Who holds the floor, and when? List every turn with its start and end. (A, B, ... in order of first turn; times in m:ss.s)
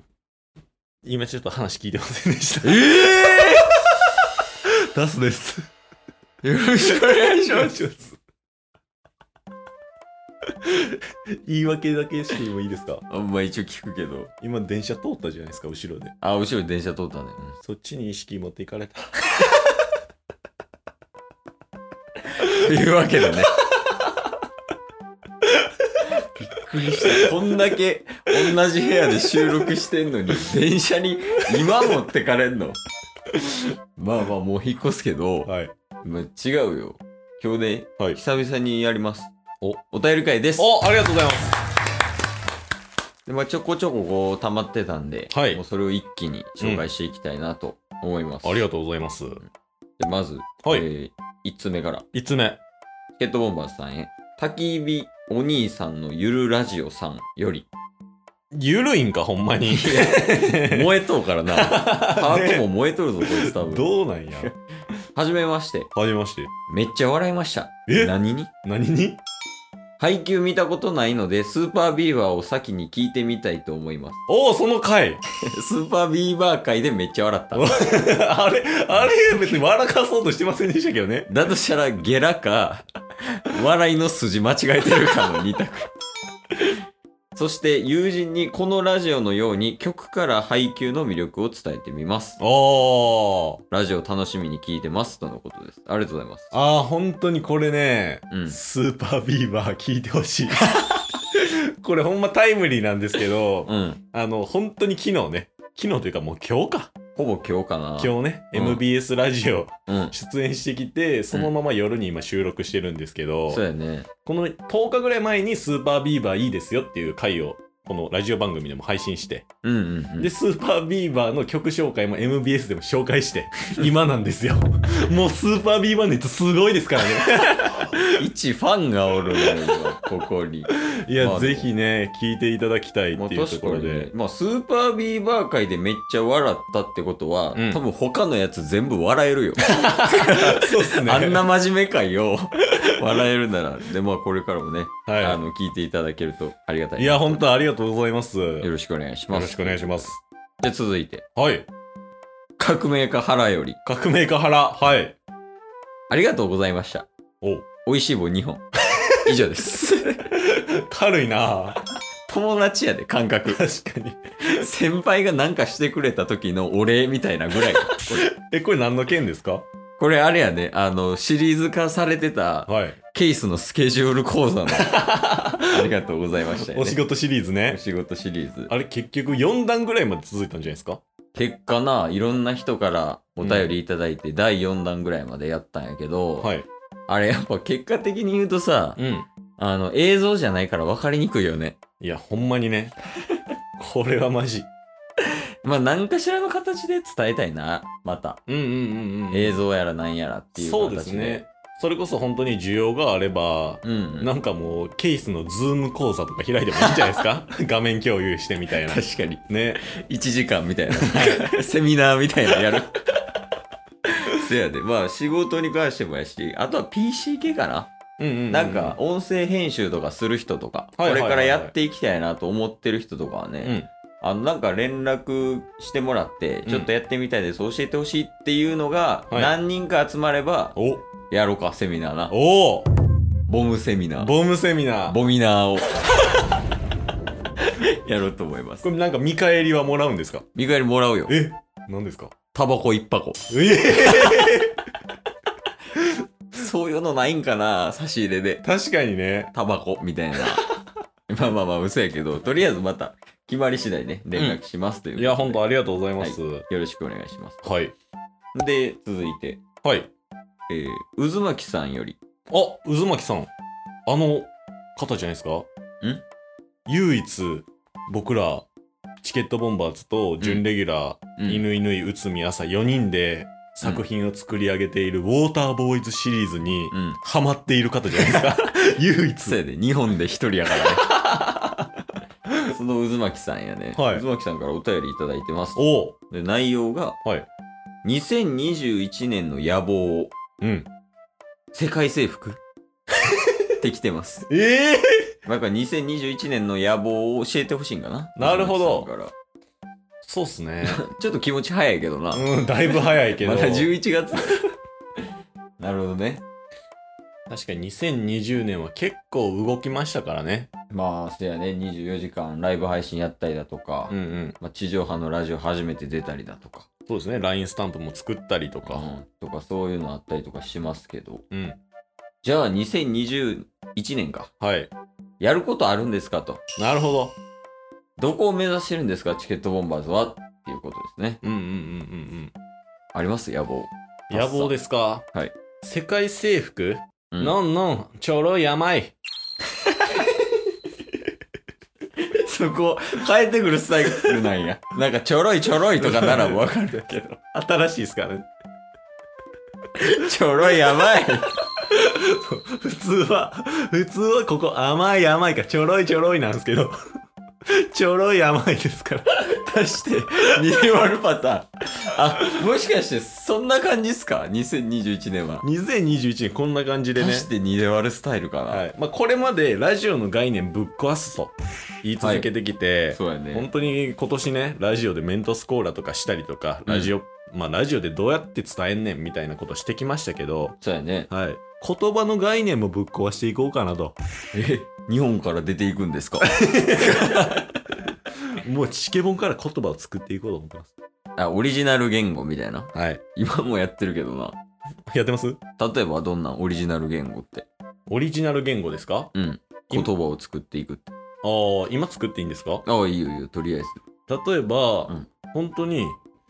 0:01.0-0:03.7 A
0:02.6-0:03.7 B
0:04.7-0:05.7 A
0:06.4-0:07.8 B
0:06.8-0:08.2 A
0:10.6-0:13.0 A
0:13.1-0:14.3 B
0:14.4-0:16.1 A
0:16.2-0:17.6 B
0:17.6-0:19.7 A
0:22.4-0:23.5 B
0:23.6-0:24.1 A
0:25.4-0:27.3 A
0:26.4-0:32.8 B
0:29.4-0:29.7 A
0:34.0-0:39.3 B
0:35.4-0:35.7 A
0:39.9-0:40.7 B
0:40.6-0:41.5 A
0:43.2-0:48.6 B
0:45.3-0:45.6 A
0:48.4-0:49.4 A
0:50.0-0:52.0 B
0:52.1-0:52.6 A
0:53.2-0:57.7 B
0:58.5-1:00.9 A
0:59.7-1:04.5 B
1:01.5-1:02.6 A
1:03.2-1:04.5 A
1:05.1-1:05.9 B
1:05.9-1:06.5 A
1:06.7-1:08.5 B
1:07.9-1:08.1 A
1:08.6-1:09.2 A
1:10.0-1:14.2 B
1:14.3-1:15.2 A
1:15.4-1:18.0 B
1:17.5-1:21.3 A
1:19.0-1:19.6 B
1:21.3-1:25.9 B
1:27.3-1:32.4 B
1:32.4-1:33.6 A
1:33.7-1:36.5 B
1:36.5-1:46.9 A
1:38.3-1:38.6 B
1:43.6-1:44.0 B
1:47.2-1:48.8 B
1:48.0-1:53.6 A
1:49.9-1:50.1 B
1:53.5-1:54.1 B
1:54.2-1:59.4 A
1:59.6-2:00.3 B
2:00.2-2:08.2 A
2:08.1-2:11.7 B
2:10.7-2:14.1 A
2:13.2-2:27.4 B
2:17.5-2:17.8 A
2:19.6-2:21.4 A
2:25.1-2:25.4 A
2:27.0-2:28.7 A
2:28.6-2:31.2 B
2:29.3-2:30.2 A
2:31.4-2:31.7 A
2:32.6-2:33.8 B
2:33.8-2:35.2 A
2:36.1-2:37.0 B
2:37.8-2:38.6 B
2:38.9-2:39.4 A
2:39.2-2:40.4 B
2:40.3-2:41.8 A
2:42.3-2:43.6 B
2:43.5-2:44.6 A
2:44.4-2:48.2 B
2:47.8-2:49.6 A
2:50.0-2:55.0 B
2:52.7-2:53.0 A
2:54.7-2:55.9 A
2:55.7-2:57.0 B
2:56.6-2:57.8 A
2:57.7-2:58.7 B
2:58.7-3:01.0 A
3:01.3-3:06.5 B
3:03.4-3:03.7 A
3:06.4-3:06.6 A
3:07.1-3:09.0 B
3:09.0-3:09.3 A
3:09.6-3:11.8 B
3:12.0-3:12.9 A
3:13.8-3:14.7 A
3:15.6-3:18.4 B
3:18.5-3:19.6 A
3:19.3-3:21.4 B
3:20.5-3:29.8 A
3:23.8-3:24.3 B
3:28.8-3:33.0 B
3:30.9-3:31.6 A
3:34.2-3:37.9 B
3:38.2-3:39.0 A
3:38.5-3:50.8 B
3:41.0-3:41.7 A
3:43.6-3:43.9 A
3:50.7-3:51.0 A
3:51.3-3:52.3 B
3:52.3-3:52.9 A
3:53.5-3:54.3 B
3:54.2-3:55.2 A
3:55.1-3:56.0 B
3:57.6-3:58.9 B
3:58.8-4:00.4 A
4:00.5-4:01.4 B
4:01.3-4:02.4 A
4:02.5-4:04.4 B
4:03.5-4:04.8 A
4:06.5-4:08.6 B
4:08.6-4:09.5 A
4:09.5-4:10.6 B
4:11.3-4:15.6 B
4:15.2-4:16.6 A
4:16.2-4:17.6 B
4:17.6-4:17.9 A
4:18.5-4:19.6 B
4:19.8-4:20.1 A
4:20.7-4:22.2 B
4:22.5-4:23.5 A
4:24.0-4:25.6 A
4:26.9-4:28.6 A
4:29.2-4:39.6 A
4:31.4-4:31.6 B
4:36.9-4:37.2 B
4:39.4-4:41.1 B
4:40.9-4:41.9 A
4:42.6-4:47.2 B
4:43.9-4:44.2 A
4:45.8-4:46.2 A
4:48.0-4:50.3 B
4:50.6-4:50.9 A
4:51.7-4:52.6 B
4:53.8-4:54.5 B
4:54.5-4:55.3 A
4:55.4-4:59.3 B
4:58.4-4:59.1 A
5:00.2-5:01.0 A
5:00.8-5:04.6 B
5:02.3-5:04.6 A
5:05.8-5:06.4 B
5:07.5-5:10.7 A
5:10.9-5:16.9 B
5:14.1-5:14.6 A
5:17.1-5:19.1 A
5:18.8-5:21.4 B
5:21.5-5:21.8 A
5:22.4-5:24.5 B
5:24.6-5:24.9 A
5:25.4-5:26.6 B
5:26.8-5:27.4 A
5:28.2-5:31.4 B
5:31.4-5:32.5 A
5:33.1-5:34.8 B
5:34.3-5:35.2 A
5:35.8-5:39.1 A
5:37.3-5:37.6 B
5:39.8-5:40.3 B
5:42.2-5:47.4 B
5:46.0-5:47.0 A
5:47.5-5:48.5 A
5:50.0-5:51.5 B
5:51.8-5:56.9 A
5:57.7-5:59.4 A
5:59.4-6:05.7 B
6:05.6-6:07.5 A
6:07.2-6:08.8 B
6:08.7-6:20.7 A
6:12.2-6:12.5 B
6:13.1-6:13.7 B
6:16.9-6:17.1 B
6:20.8-6:21.3 B
6:21.3-6:24.2 A
6:24.5-6:27.7 B
6:26.6-6:27.7 A
6:28.6-6:30.9 A
6:31.4-6:34.6 B
6:32.9-6:33.2 A
6:35.1-6:35.6 A
6:35.8-6:37.6 B
6:38.1-6:39.3 A
6:39.3-6:41.1 B
6:41.4-6:42.8 A
6:42.8-6:44.0 B
6:44.3-6:46.2 A